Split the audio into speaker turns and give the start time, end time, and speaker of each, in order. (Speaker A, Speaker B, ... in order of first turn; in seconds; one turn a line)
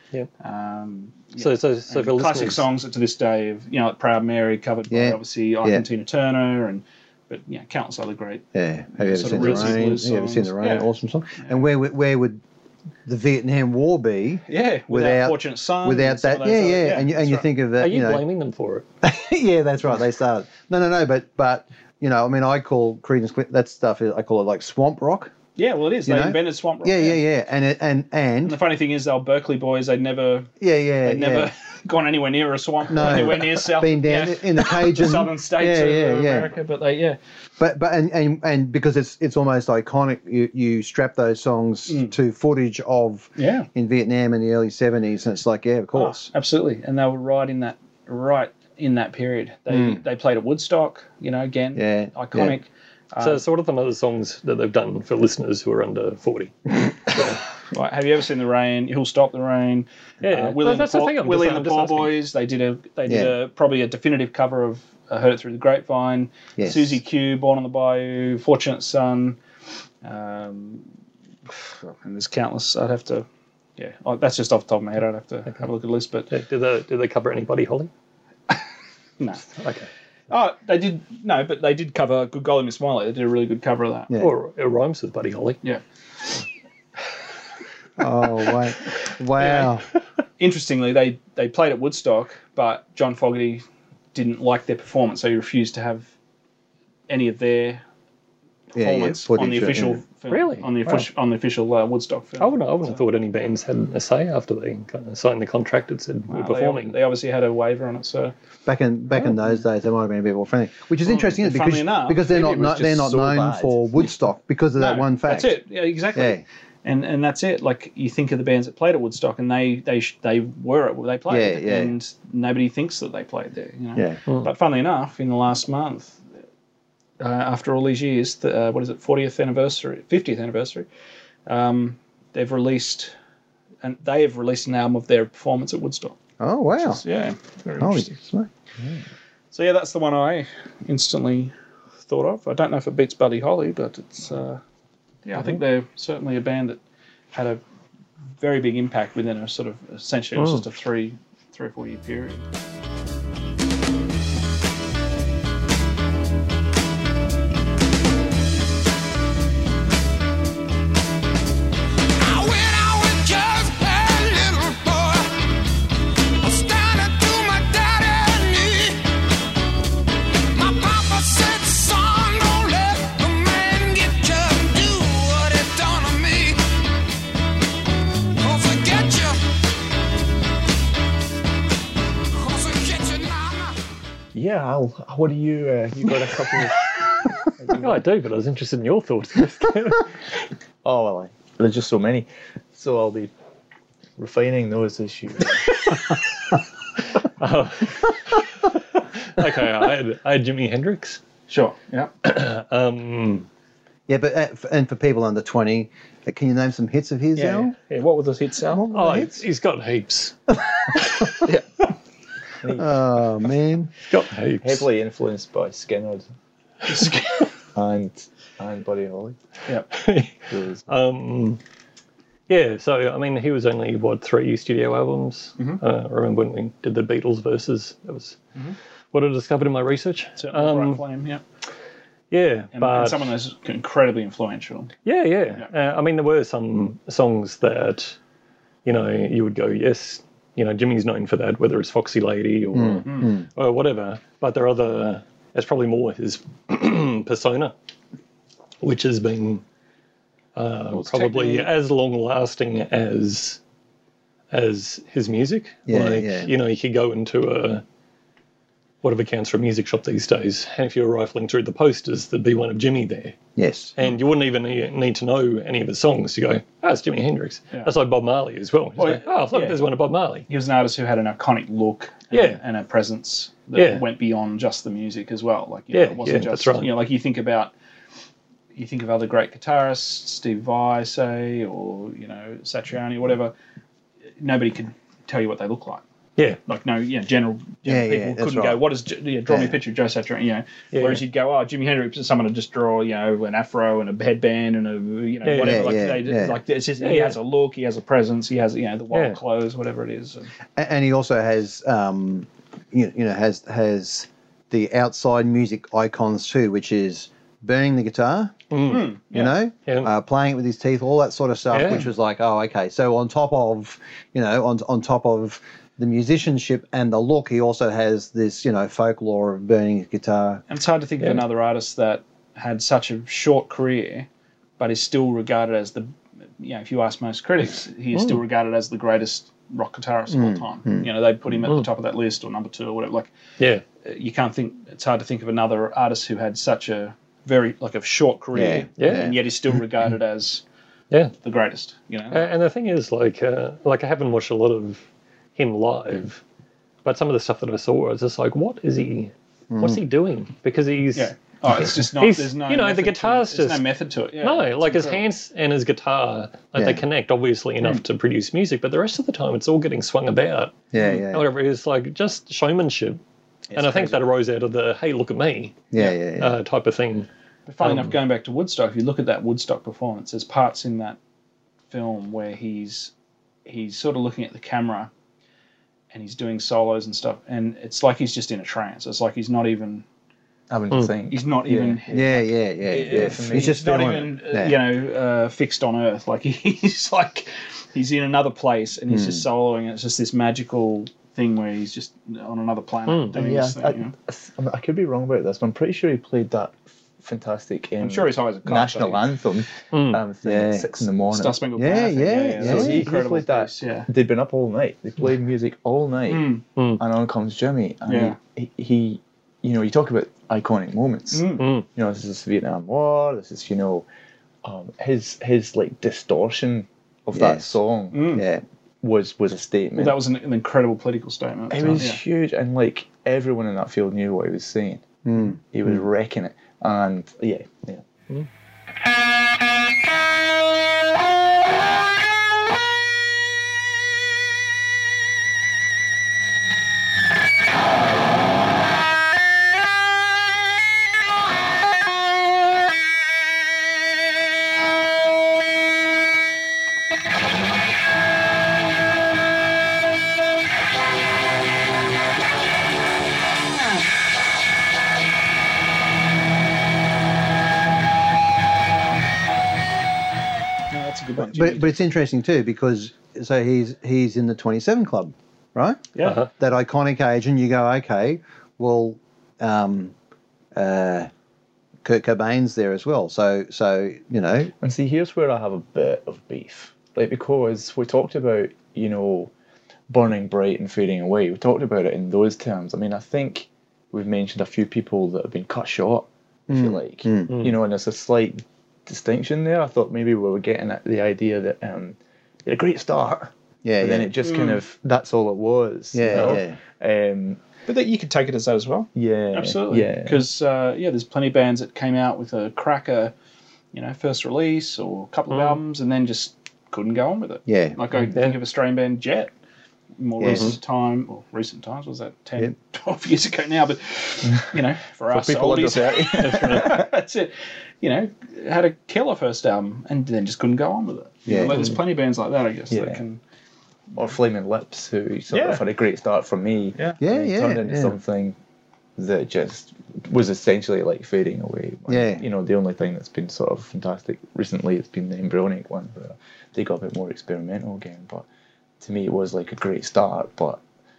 Speaker A: 0.4-8.4
Speaker B: 1.4-2.6
Speaker C: 4.9-5.8
Speaker C: 8.5-12.4
Speaker A: 9.0-11.6
Speaker B: 9.4-9.7
Speaker C: 13.1-18.2
Speaker A: 14.5-17.5
Speaker B: 17.8-18.9
Speaker C: 19.0-25.3
Speaker A: 25.6-27.2
Speaker C: 26.1-28.6
Speaker A: 28.4-30.5
Speaker C: 30.6-31.5
Speaker A: 31.0-37.2
Speaker C: 32.9-36.5
Speaker C: 37.6-46.3
Speaker A: 41.9-42.1
Speaker A: 43.4-43.7
Speaker A: 45.9-53.4
Speaker C: 49.7-50.0
Speaker C: 51.8-52.6
Speaker B: 53.2-57.3
Speaker A: 57.2-69.4
Speaker B: 60.2-62.1
Speaker C: 63.1-63.3
Speaker C: 66.6-67.0
Speaker A: 70.0-70.9
Speaker A: 71.5-76.3
Speaker B: 76.3-77.9
Speaker A: 79.2-79.5
Speaker B: 79.6-79.9
Speaker A: 80.3-84.1
Speaker B: 84.2-85.6
Speaker C: 88.0-89.9
Speaker A: 90.4-96.1
Speaker A: 97.1-97.8
Speaker C: 98.7-100.0
Speaker A: 98.7-103.0
Speaker B: 100.3-101.1
Speaker B: 102.4-107.0
Speaker A: 106.3-108.3
Speaker C: 108.7-115.6
Speaker A: 111.0-112.3
Speaker D: 112.2-113.8
Speaker A: 114.8-126.2
Speaker C: 116.2-116.4
Speaker C: 121.3-122.0
Speaker A: 127.2-130.9
Speaker A: 131.5-133.1
Speaker A: 133.8-136.2
Speaker C: 136.4-137.0
Speaker A: 136.8-138.1
Speaker C: 137.8-138.5
Speaker A: 139.5-144.6
Speaker A: 145.2-146.8
Speaker A: 147.3-147.6
Speaker A: 148.4-152.5
Speaker B: 150.4-150.6
Speaker E: 162.2-165.4
Speaker E: 166.4-169.0
Speaker E: 170.5-176.6
Speaker E: 178.4-179.4
Speaker E: 182.3-183.8
Speaker D: 184.3-187.0
Speaker D: 187.6-187.9
Speaker B: 187.7-190.1
Speaker D: 190.8-193.3
Speaker D: 194.2-195.8
Speaker B: 197.1-201.2
Speaker A: 201.5-202.1
Speaker B: 202.2-203.5
Speaker C: 204.1-207.7
Speaker A: 207.3-208.9
Speaker C: 208.7-209.4
Speaker B: 208.9-211.4
Speaker D: 212.6-213.0
Speaker C: 212.7-213.9
Speaker B: 214.1-214.9
Speaker D: 214.6-216.3
Speaker A: 216.8-217.5
Speaker D: 217.7-219.4
Speaker B: 219.9-221.6
Speaker D: 220.5-220.8
Speaker B: 222.5-228.4
Speaker B: 229.1-231.0
Speaker A: 230.4-231.4
Speaker B: 232.3-233.3
Speaker A: 232.7-234.9
Speaker B: 235.1-238.2
Speaker B: 238.8-247.7
Speaker C: 242.7-243.4
Speaker A: 243.1-243.3
Speaker B: 248.8-249.6
Speaker B: 250.6-253.6
Speaker A: 250.9-251.7
Speaker B: 254.5-257.8
Speaker C: 255.9-256.5
Speaker B: 259.0-263.4
Speaker C: 263.6-263.9
Speaker B: 264.0-270.5
Speaker A: 269.0-269.8
Speaker A: 270.5-277.7
Speaker B: 272.3-272.6
Speaker B: 273.8-274.0
Speaker B: 275.9-277.0
Speaker A: 278.7-283.5
Speaker A: 284.4-286.0
Speaker A: 286.7-300.5
Speaker C: 287.9-288.8
Speaker C: 289.5-289.8
Speaker B: 290.9-291.2
Speaker B: 295.4-296.1
Speaker C: 295.6-296.6
Speaker B: 297.0-297.4
Speaker B: 299.1-299.4
Speaker C: 300.8-308.6
Speaker B: 308.7-309.1
Speaker A: 308.9-309.6
Speaker C: 309.3-320.6
Speaker B: 311.7-312.1
Speaker A: 320.7-324.3
Speaker A: 324.8-333.3
Speaker C: 330.3-331.1
Speaker A: 334.0-340.6
Speaker C: 338.5-339.4
Speaker B: 339.0-339.4
Speaker A: 341.4-342.5
Speaker B: 342.3-345.0
Speaker B: 345.6-346.4
Speaker B: 347.1-353.9
Speaker C: 349.7-350.0
Speaker A: 351.1-355.2
Speaker B: 354.4-363.2
Speaker C: 356.8-357.0
Speaker C: 360.9-361.4
Speaker D: 363.7-364.2
Speaker B: 363.7-367.3
Speaker C: 365.9-366.6
Speaker A: 367.7-371.2
Speaker B: 367.8-368.1
Speaker A: 371.9-373.1
Speaker A: 373.7-375.1
Speaker A: 376.1-380.1
Speaker D: 380.7-382.3
Speaker A: 381.3-394.1
Speaker C: 382.1-384.8
Speaker D: 382.9-383.8
Speaker C: 389.1-389.4
Speaker B: 393.1-393.3
Speaker D: 393.3-401.6
Speaker A: 398.0-399.2
Speaker B: 399.9-400.2
Speaker C: 400.4-401.0
Speaker A: 401.3-404.1
Speaker C: 401.8-403.1
Speaker D: 402.6-414.1
Speaker A: 406.3-406.6
Speaker B: 406.8-407.0
Speaker A: 408.1-408.4
Speaker A: 411.3-411.7
Speaker B: 411.6-411.9
Speaker D: 414.6-418.4
Speaker C: 417.3-417.8
Speaker A: 418.1-418.5
Speaker C: 418.3-418.6
Speaker D: 419.0-420.2
Speaker A: 420.0-422.2
Speaker D: 421.7-428.0
Speaker C: 425.2-426.0
Speaker A: 460.9-462.0
Speaker C: 461.4-470.1
Speaker A: 466.1-466.4
Speaker B: 466.2-466.5
Speaker C: 470.7-471.3
Speaker C: 472.0-474.7
Speaker D: 474.8-479.5
Speaker D: 480.1-497.6
Speaker C: 486.7-487.5
Speaker B: 487.5-487.8
Speaker C: 493.8-494.3
Speaker A: 494.4-494.8
Speaker C: 496.1-496.8
Speaker A: 497.9-503.3
Speaker D: 499.1-500.5
Speaker A: 503.9-509.5
Speaker B: 505.5-505.8
Speaker C: 507.7-508.0
Speaker B: 508.3-508.6
Speaker A: 510.2-523.4
Speaker C: 510.4-510.8
Speaker B: 510.5-510.7
Speaker D: 515.3-517.1
Speaker B: 516.4-517.0
Speaker C: 521.5-521.9
Speaker D: 522.9-523.2
Speaker D: 524.1-528.6
Speaker A: 525.5-525.9
Speaker C: 527.2-528.2
Speaker D: 529.2-538.5
Speaker C: 532.1-532.5
Speaker D: 539.0-540.8